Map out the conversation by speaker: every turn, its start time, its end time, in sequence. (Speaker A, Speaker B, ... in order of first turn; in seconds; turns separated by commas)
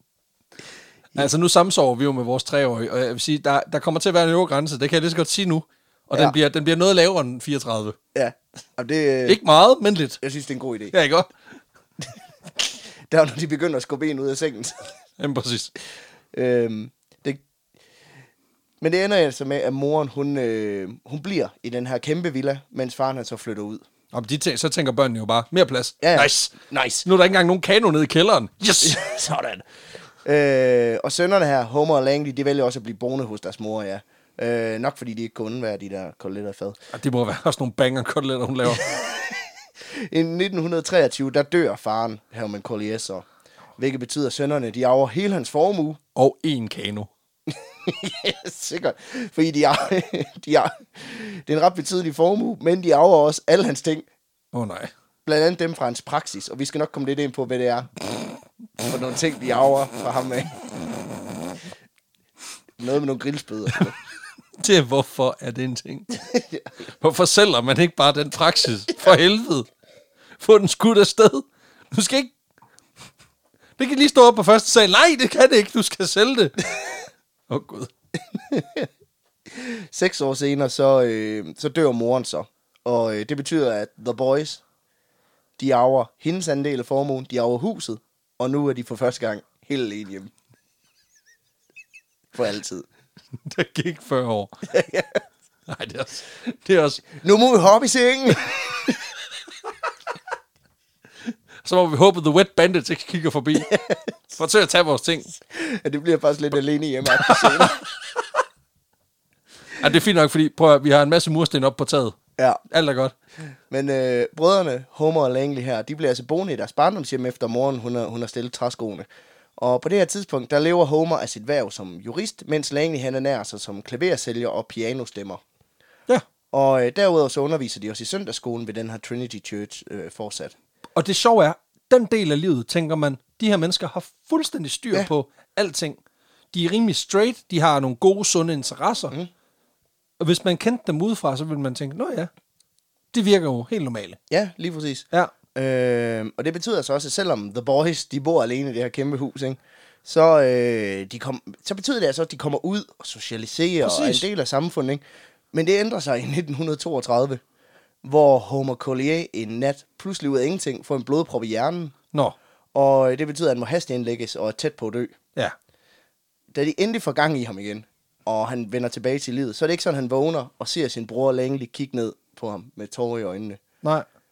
Speaker A: 1.1-8.0, Speaker B: 8.1-9.4, Speaker A: 9.2-10.2, Speaker B: 10.2-10.9, Speaker A: 10.9-11.3, Speaker B: 12.6-14.9, Speaker A: 15.2-15.7, Speaker B: 16.3-17.4, Speaker B: 18.8-23.8, Speaker A: 24.1-26.5, Speaker B: 26.0-27.1, Speaker A: 27.0-29.0, Speaker B: 28.8-29.6, Speaker B: 30.2-36.8, Speaker A: 36.9-39.0, Speaker B: 38.7-43.2, Speaker B: 43.8-46.0, Speaker A: 46.1-47.1, Speaker B: 47.5-54.0, Speaker A: 54.5-54.9, Speaker B: 55.2-57.9, Speaker B: 58.8-60.7, Speaker B: 62.8-63.9, Speaker A: 64.6-66.2, Speaker B: 66.1-66.7, Speaker A: 66.9-69.7, Speaker A: 70.4-72.3, Speaker A: 73.8-77.9, Speaker B: 78.3-78.9, Speaker B: 79.5-84.6, Speaker B: 85.6-90.3, Speaker B: 92.3-92.8, Speaker A: 93.4-94.5, Speaker B: 94.7-95.2, Speaker A: 95.7-97.1, Speaker B: 97.1-99.0, Speaker A: 101.6-103.7, Speaker B: 103.6-104.3, Speaker A: 104.3-105.3, Speaker B: 105.5-107.8, Speaker A: 107.2-107.8, Speaker A: 109.8-112.2, Speaker A: 112.7-113.1, Speaker B: 113.7-119.1, Speaker B: 119.6-125.4, Speaker B: 126.5-130.5, Speaker A: 130.9-136.0, Speaker A: 136.5-139.1, Speaker A: 140.2-142.3, Speaker A: 143.1-144.2, Speaker B: 144.3-155.0, Speaker A: 153.8-154.2, Speaker B: 155.5-157.4, Speaker B: 158.0-161.9, Speaker B: 162.7-165.1, Speaker B: 166.5-173.6